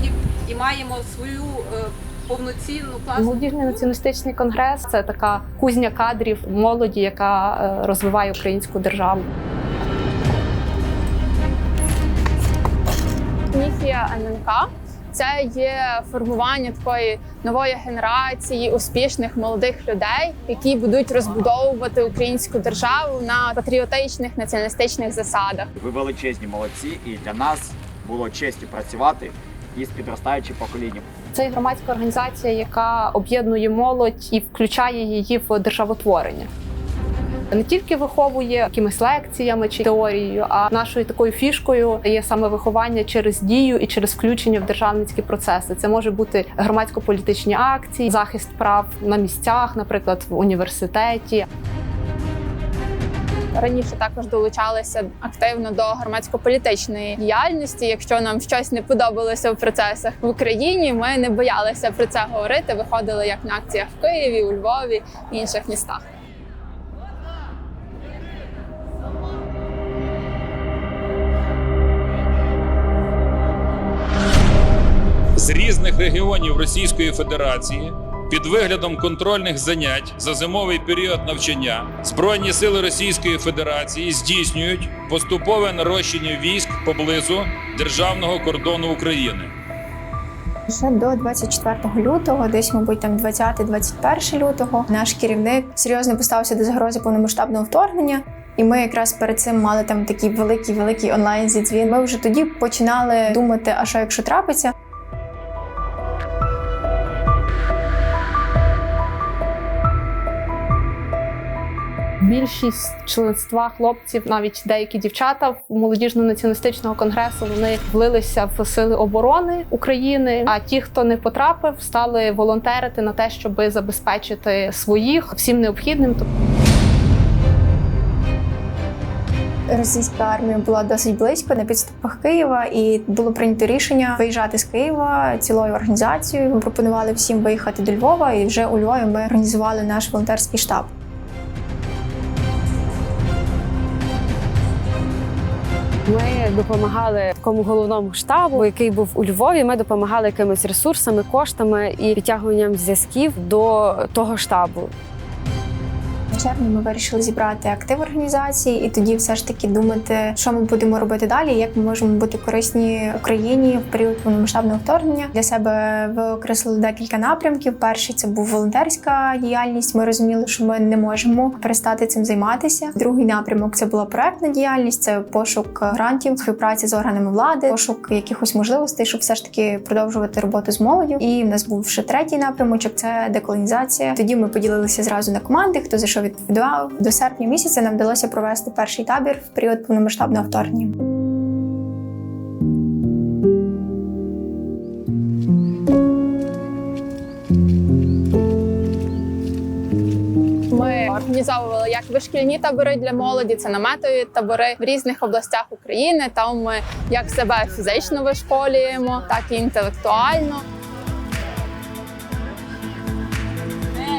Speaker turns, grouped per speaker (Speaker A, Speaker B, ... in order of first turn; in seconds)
Speaker A: 1.1-1.8, 2.3-3.9
Speaker B: 3.2-9.2, 31.4-36.5, 37.5-51.4, 112.2-126.2
Speaker C: 13.5-25.7, 53.5-66.0, 200.7-210.6
Speaker D: 25.8-31.0
Speaker E: 75.4-89.5
Speaker F: 90.7-104.7, 129.7-140.9, 156.3-190.9
Speaker G: 146.1-154.9